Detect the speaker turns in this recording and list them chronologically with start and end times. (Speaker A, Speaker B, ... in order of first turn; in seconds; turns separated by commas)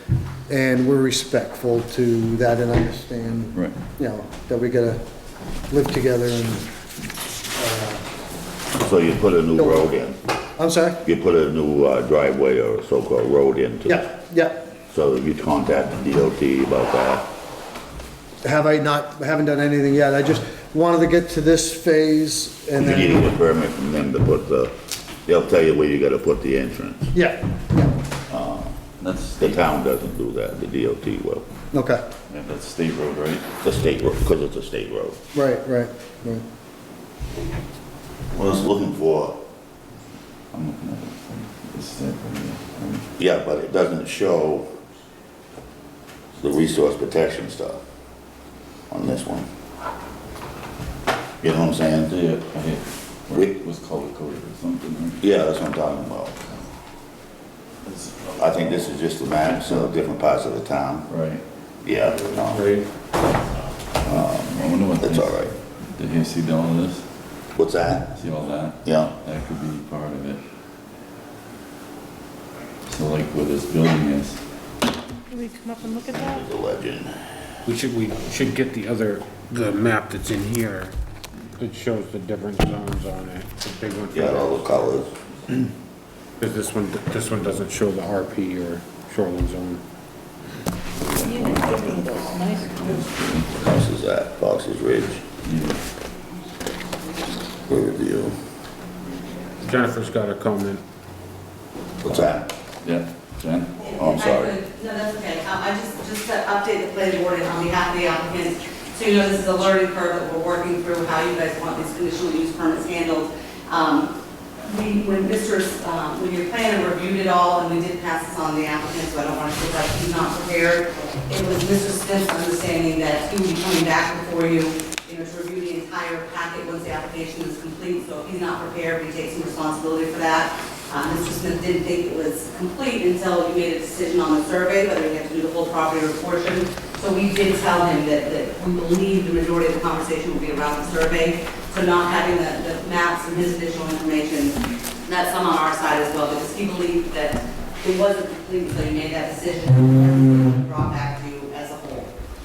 Speaker A: 0.5-5.0, Speaker A: 5.7-6.7, Speaker A: 7.6-8.0, Speaker B: 8.8-10.2, Speaker A: 9.6-9.9, Speaker A: 10.6-11.0, Speaker B: 11.0-14.1, Speaker A: 13.8-14.6, Speaker B: 14.9-17.3, Speaker A: 18.4-23.3, Speaker B: 22.8-24.7, Speaker B: 25.2-27.1, Speaker A: 27.1-27.9, Speaker B: 28.3-28.8, Speaker C: 29.0-29.6, Speaker B: 29.4-31.4, Speaker A: 31.7-32.0, Speaker C: 32.3-33.5, Speaker B: 33.6-35.2, Speaker A: 35.3-36.4, Speaker B: 38.3-39.4, Speaker C: 40.5-43.1, Speaker B: 43.2-44.8, Speaker B: 46.4-47.8, Speaker B: 48.9-49.5, Speaker B: 51.4-52.2, Speaker C: 52.1-55.2, Speaker B: 55.2-56.5, Speaker C: 57.8-58.4, Speaker B: 58.4-61.1, Speaker C: 59.6-59.8, Speaker C: 61.1-61.4, Speaker B: 61.8-62.6, Speaker D: 62.4-62.9, Speaker C: 64.0-67.0, Speaker B: 64.0-65.5, Speaker B: 67.5-68.1, Speaker C: 68.2-70.4, Speaker B: 68.8-69.1, Speaker C: 72.9-74.4, Speaker E: 75.3-76.0, Speaker B: 76.0-77.2, Speaker D: 77.7-80.9, Speaker D: 81.6-84.6, Speaker B: 84.1-85.7, Speaker D: 86.4-89.8, Speaker C: 91.0-93.6, Speaker E: 91.2-92.7, Speaker B: 93.5-95.2, Speaker C: 95.4-95.8, Speaker B: 97.7-98.4, Speaker D: 99.6-100.8, Speaker B: 102.0-102.5, Speaker C: 102.8-103.9, Speaker F: 103.8-152.1, Speaker B: 103.9-104.6